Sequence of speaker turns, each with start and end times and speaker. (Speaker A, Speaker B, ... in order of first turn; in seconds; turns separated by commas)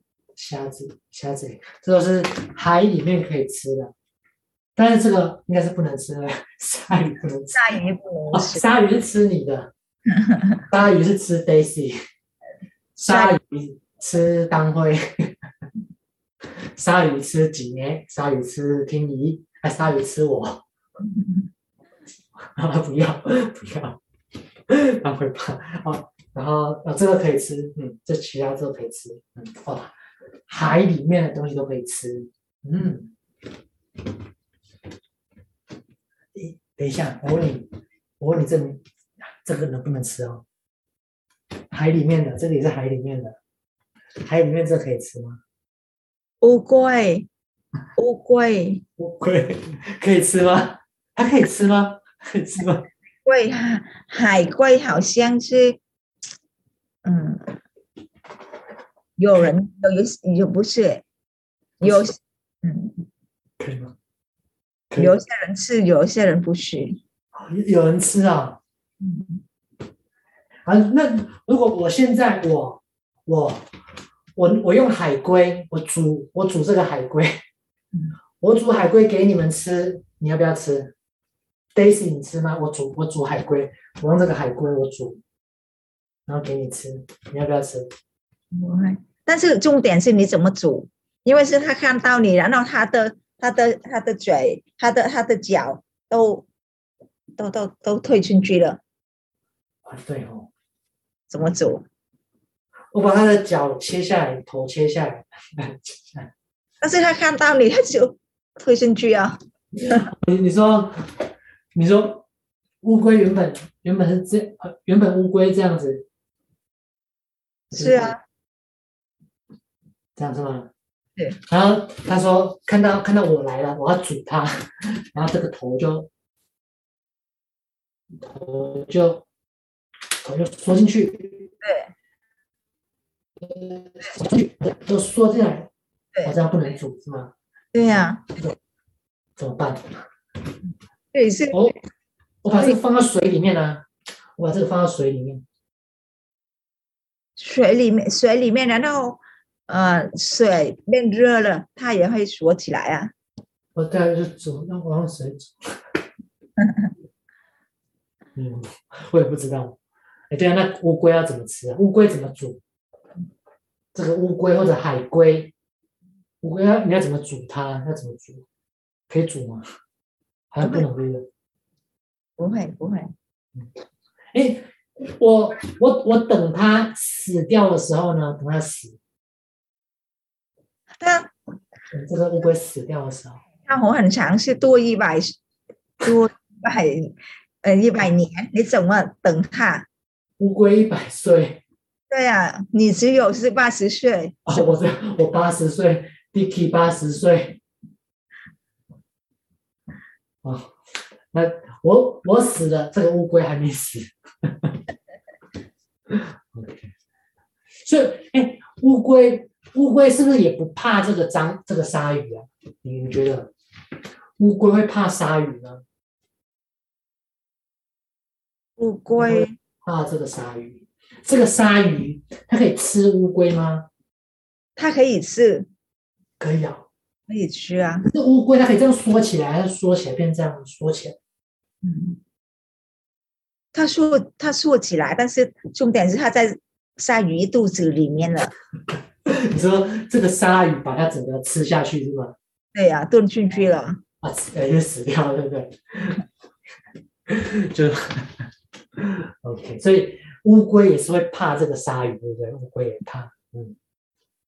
Speaker A: 0.4-3.9, Speaker A: 4.8-7.7, Speaker B: 7.5-8.6, Speaker A: 8.3-9.7, Speaker B: 10.1-10.6, Speaker A: 10.7-12.0, Speaker A: 13.0-15.3, Speaker B: 13.1-13.4, Speaker A: 16.8-20.6, Speaker B: 21.1-21.4, Speaker A: 22.4-24.0, Speaker A: 24.7-29.9, Speaker A: 30.5-33.1, Speaker A: 36.4-40.4, Speaker A: 41.7-43.4, Speaker A: 44.2-45.4, Speaker B: 46.4-47.3, Speaker B: 48.0-48.8, Speaker A: 49.0-52.9, Speaker B: 53.2-55.8, Speaker B: 57.0-57.5, Speaker B: 59.2-61.0, Speaker B: 61.8-63.1, Speaker A: 61.8-62.1, Speaker A: 63.6-64.0, Speaker B: 65.0-67.0, Speaker A: 67.3-68.6, Speaker B: 69.0-69.4, Speaker A: 70.7-73.7, Speaker A: 74.4-77.4, Speaker A: 78.4-80.9, Speaker A: 81.8-85.2, Speaker A: 86.3-87.9, Speaker B: 88.5-96.5, Speaker B: 97.4-98.8, Speaker A: 99.8-100.5, Speaker B: 101.3-101.8, Speaker A: 102.9-106.3, Speaker B: 106.8-110.1, Speaker A: 109.8-111.0, Speaker A: 111.8-112.2, Speaker A: 112.8-116.1, Speaker A: 117.7-118.2, Speaker B: 117.7-118.2, Speaker A: 120.2-120.7, Speaker A: 121.5-126.1, Speaker A: 128.2-129.3, Speaker A: 130.2-131.5, Speaker B: 131.6-131.9, Speaker A: 133.4-135.7, Speaker A: 136.2-137.3, Speaker B: 137.7-138.4, Speaker A: 137.9-138.6, Speaker A: 139.4-140.1, Speaker B: 141.1-141.7, Speaker A: 141.5-141.8, Speaker A: 142.4-143.9, Speaker B: 142.5-142.8, Speaker A: 144.4-145.4, Speaker B: 147.4-153.1, Speaker A: 153.8-155.7, Speaker A: 158.4-159.8, Speaker A: 160.3-162.6, Speaker A: 163.9-165.5, Speaker A: 166.4-168.4, Speaker A: 169.1-169.7, Speaker A: 170.5-171.3, Speaker B: 172.4-173.1, Speaker A: 174.3-179.0, Speaker B: 181.0-181.3, Speaker A: 181.9-183.4, Speaker B: 183.6-185.4, Speaker B: 186.0-189.9, Speaker A: 190.4-191.6, Speaker B: 192.1-194.5, Speaker A: 194.5-197.6, Speaker A: 200.4-200.8, Speaker A: 201.3-204.8, Speaker A: 206.1-206.9, Speaker A: 207.8-213.5, Speaker A: 214.4-215.8, Speaker B: 218.8-219.6, Speaker A: 219.2-223.9, Speaker B: 224.8-225.7, Speaker A: 226.4-226.9, Speaker B: 227.3-228.1, Speaker A: 228.1-231.2, Speaker B: 231.8-232.2, Speaker B: 233.7-238.5, Speaker A: 239.3-242.4, Speaker B: 242.7-244.0, Speaker A: 244.2-246.2, Speaker A: 247.3-253.8